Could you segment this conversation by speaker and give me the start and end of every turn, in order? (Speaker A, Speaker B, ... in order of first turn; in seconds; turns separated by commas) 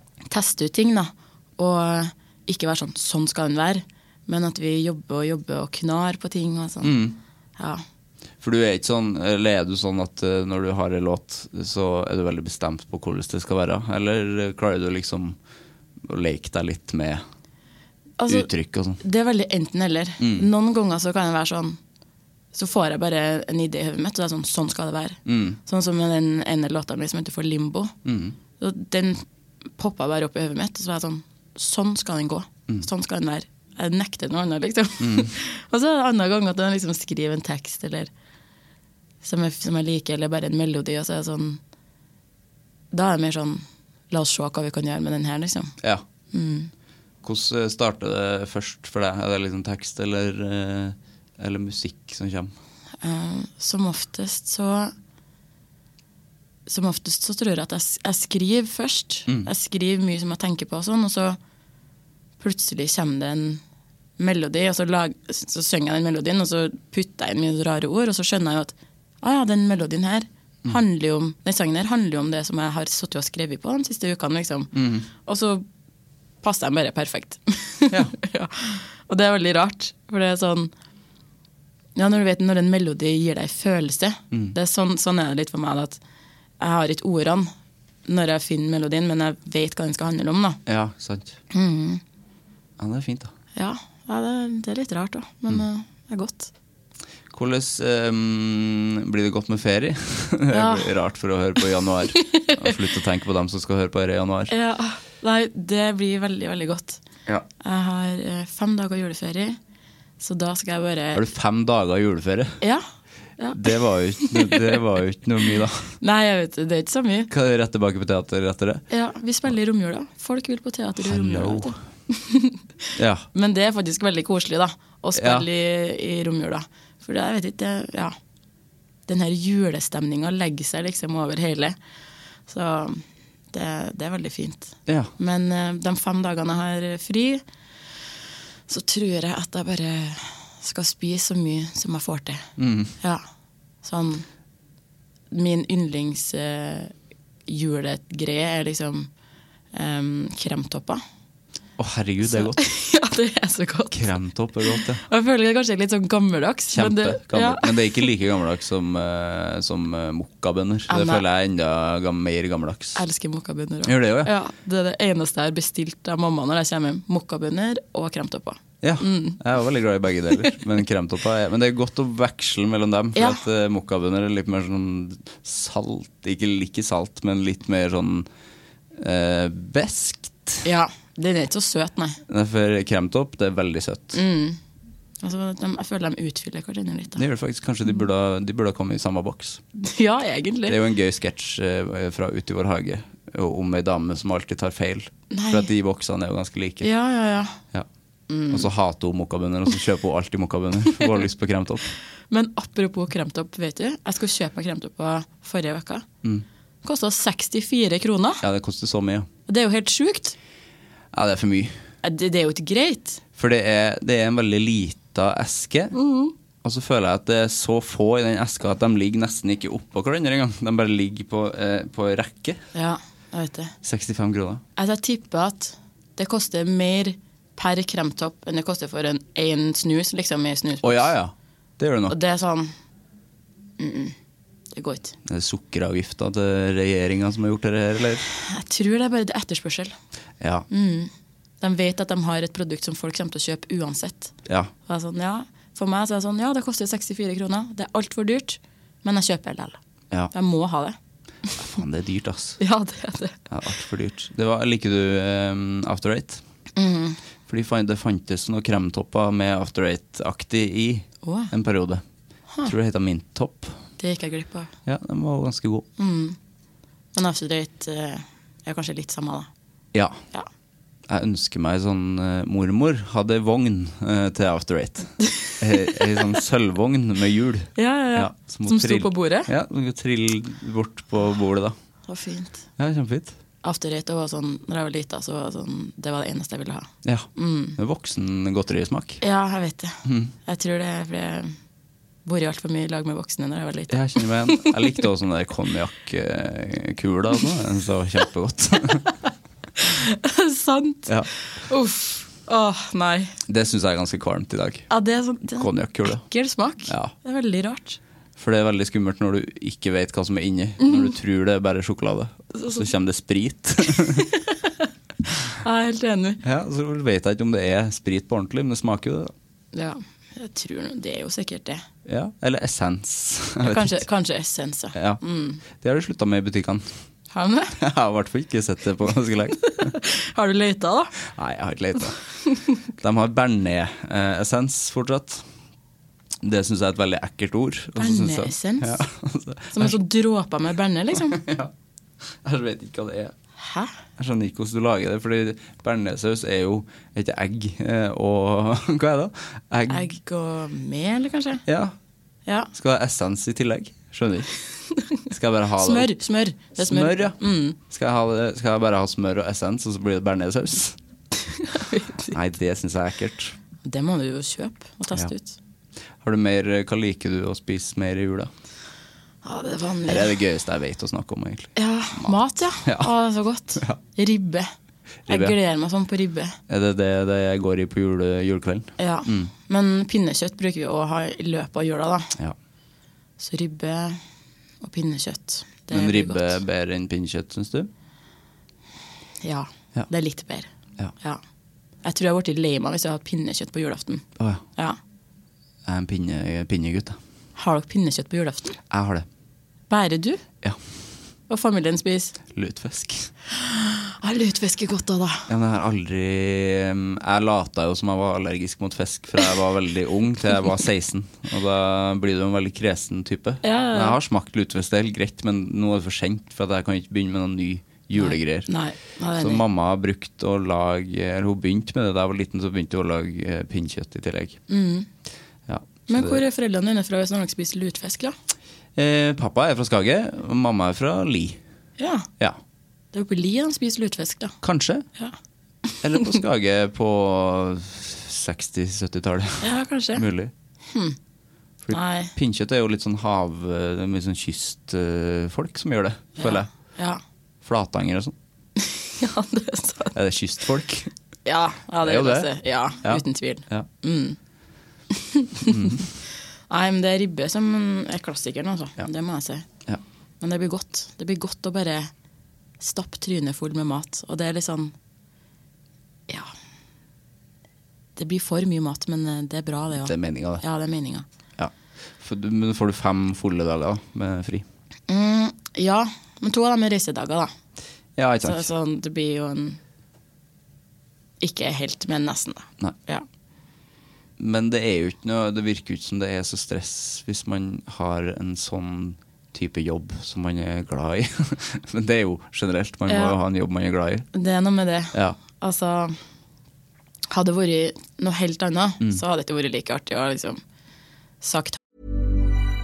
Speaker A: 0.3-6.9, Speaker B: 6.8-7.2, Speaker A: 7.6-7.8, Speaker B: 8.4-15.4, Speaker B: 16.1-17.2, Speaker A: 18.2-21.8, Speaker B: 18.3-19.0, Speaker B: 20.2-20.5, Speaker A: 22.5-27.9, Speaker B: 25.3-25.6, Speaker B: 28.1-28.4, Speaker A: 28.6-29.2, Speaker A: 29.8-38.1, Speaker B: 35.0-35.3, Speaker A: 39.2-41.6, Speaker A: 42.9-45.8, Speaker A: 46.3-46.7, Speaker B: 47.2-52.5, Speaker A: 53.0-54.9, Speaker A: 56.7-61.4, Speaker A: 62.4-63.6, Speaker A: 64.2-75.7, Speaker B: 74.7-75.1, Speaker A: 76.4-80.7, Speaker A: 82.0-86.0, Speaker A: 86.6-87.5, Speaker A: 88.1-90.6, Speaker B: 90.7-91.4, Speaker A: 91.5-92.0, Speaker B: 92.8-93.3, Speaker A: 93.5-96.5, Speaker B: 97.3-104.5, Speaker A: 100.5-100.9, Speaker A: 102.2-102.5, Speaker A: 104.5-107.0, Speaker A: 107.6-109.6, Speaker A: 110.2-111.2, Speaker B: 111.2-112.6, Speaker A: 113.4-114.8, Speaker B: 113.5-116.0, Speaker A: 116.0-117.3, Speaker B: 117.3-118.9, Speaker A: 118.9-122.6, Speaker B: 121.0-121.8, Speaker B: 123.0-123.3, Speaker A: 123.3-128.2, Speaker B: 125.2-125.5, Speaker A: 129.1-131.8, Speaker A: 132.5-137.4, Speaker A: 138.7-142.5, Speaker B: 142.6-142.9, Speaker A: 143.8-144.3, Speaker A: 145.3-146.9, Speaker A: 147.5-149.1, Speaker A: 149.7-151.0, Speaker B: 151.8-152.6, Speaker A: 152.2-154.2, Speaker B: 153.9-155.0, Speaker A: 154.7-157.7, Speaker B: 156.7-163.0, Speaker A: 160.9-161.2, Speaker A: 163.0-169.4, Speaker B: 163.9-164.3, Speaker B: 168.8-178.3, Speaker A: 173.2-173.4, Speaker B: 179.0-180.6, Speaker A: 180.6-182.2, Speaker B: 182.3-184.2, Speaker A: 184.1-184.6, Speaker A: 185.2-187.2, Speaker B: 187.2-189.6, Speaker A: 189.8-190.8, Speaker B: 190.7-196.9, Speaker A: 195.3-195.7, Speaker A: 196.8-197.6, Speaker A: 198.3-198.7, Speaker B: 198.5-201.9, Speaker A: 202.3-206.1, Speaker A: 206.8-208.4, Speaker B: 208.4-209.3, Speaker A: 209.5-210.4, Speaker B: 211.1-211.8, Speaker A: 212.0-213.2, Speaker B: 213.4-215.9, Speaker A: 215.9-216.3, Speaker B: 216.6-222.6, Speaker A: 222.8-223.8, Speaker B: 223.8-224.6, Speaker A: 224.8-231.1, Speaker B: 230.8-232.2, Speaker A: 232.1-232.7, Speaker A: 233.8-234.2, Speaker A: 234.7-235.2, Speaker B: 235.3-238.2, Speaker A: 238.5-239.9, Speaker B: 240.4-240.7, Speaker A: 240.7-244.3, Speaker A: 244.9-249.8, Speaker A: 250.3-251.0, Speaker B: 251.5-252.6, Speaker A: 252.6-253.3, Speaker B: 253.5-256.4, Speaker A: 256.8-257.2, Speaker B: 257.5-262.0, Speaker A: 261.2-261.5, Speaker B: 262.6-263.8, Speaker A: 264.0-264.7, Speaker B: 264.9-265.9, Speaker A: 266.0-266.4, Speaker A: 267.1-269.5, Speaker B: 269.9-270.2, Speaker B: 271.1-281.7, Speaker A: 277.8-279.5, Speaker A: 282.1-282.6, Speaker B: 282.8-283.3, Speaker A: 283.6-287.8, Speaker B: 287.0-289.2, Speaker A: 289.2-291.5, Speaker B: 290.1-290.3, Speaker A: 292.2-294.7, Speaker B: 293.9-299.1, Speaker A: 299.8-303.4, Speaker B: 303.5-304.9, Speaker A: 304.9-308.0, Speaker B: 305.6-306.3, Speaker B: 306.9-307.1, Speaker B: 308.4-314.3, Speaker A: 312.6-312.9, Speaker A: 314.2-314.7, Speaker A: 315.6-316.4, Speaker B: 316.4-319.3, Speaker A: 319.7-321.8, Speaker B: 322.1-324.0, Speaker A: 323.6-325.6, Speaker B: 324.9-326.9, Speaker A: 327.3-327.7, Speaker B: 327.8-329.9, Speaker A: 329.8-331.1, Speaker B: 331.3-332.2, Speaker B: 332.8-335.4, Speaker B: 336.4-340.0, Speaker A: 338.0-339.0, Speaker A: 339.7-341.4, Speaker B: 341.3-341.7, Speaker B: 342.4-343.3, Speaker A: 343.6-343.9, Speaker B: 344.2-350.1, Speaker A: 349.9-351.6, Speaker B: 351.7-351.9, Speaker B: 352.7-354.5, Speaker B: 355.2-356.1, Speaker A: 355.8-357.8, Speaker B: 356.8-361.0, Speaker A: 361.6-362.3, Speaker B: 362.3-363.6, Speaker A: 363.9-365.6, Speaker B: 366.2-368.5, Speaker A: 369.4-370.3, Speaker B: 370.1-373.1, Speaker A: 371.8-374.7, Speaker B: 375.3-375.6, Speaker A: 375.3-376.6, Speaker B: 376.7-379.5, Speaker A: 379.0-382.3, Speaker A: 383.4-384.2, Speaker A: 384.8-386.6, Speaker B: 385.9-387.9, Speaker A: 389.4-391.4, Speaker A: 392.0-394.2, Speaker B: 395.9-397.2, Speaker A: 397.6-398.8, Speaker B: 398.9-399.3, Speaker A: 399.9-400.4, Speaker A: 401.5-402.4, Speaker B: 402.5-403.3, Speaker A: 403.5-405.5, Speaker B: 405.5-418.7, Speaker A: 413.6-414.2, Speaker A: 418.2-419.6, Speaker B: 419.4-424.6, Speaker A: 424.7-425.1, Speaker B: 425.7-426.4, Speaker A: 426.1-428.4, Speaker B: 429.0-431.6, Speaker A: 432.0-432.3, Speaker A: 433.1-434.6, Speaker B: 434.6-435.1, Speaker B: 436.0-440.5, Speaker A: 439.6-440.2, Speaker A: 440.9-441.2, Speaker B: 441.8-446.7, Speaker A: 441.9-442.3, Speaker A: 446.4-447.2, Speaker B: 447.6-448.4, Speaker A: 448.9-450.1, Speaker B: 450.1-451.1, Speaker A: 451.4-454.4, Speaker B: 452.0-452.5, Speaker B: 453.0-453.9, Speaker A: 455.1-455.9, Speaker B: 455.7-456.1, Speaker A: 456.7-459.6, Speaker A: 460.4-462.1, Speaker A: 462.8-464.9, Speaker A: 468.2-471.2, Speaker B: 470.0-470.6, Speaker B: 471.6-474.6, Speaker A: 475.1-477.5, Speaker B: 478.2-478.7, Speaker A: 478.4-479.8, Speaker A: 481.4-483.2, Speaker B: 484.4-494.3, Speaker A: 493.1-493.4, Speaker A: 494.3-496.2, Speaker A: 497.3-500.6, Speaker A: 501.4-501.8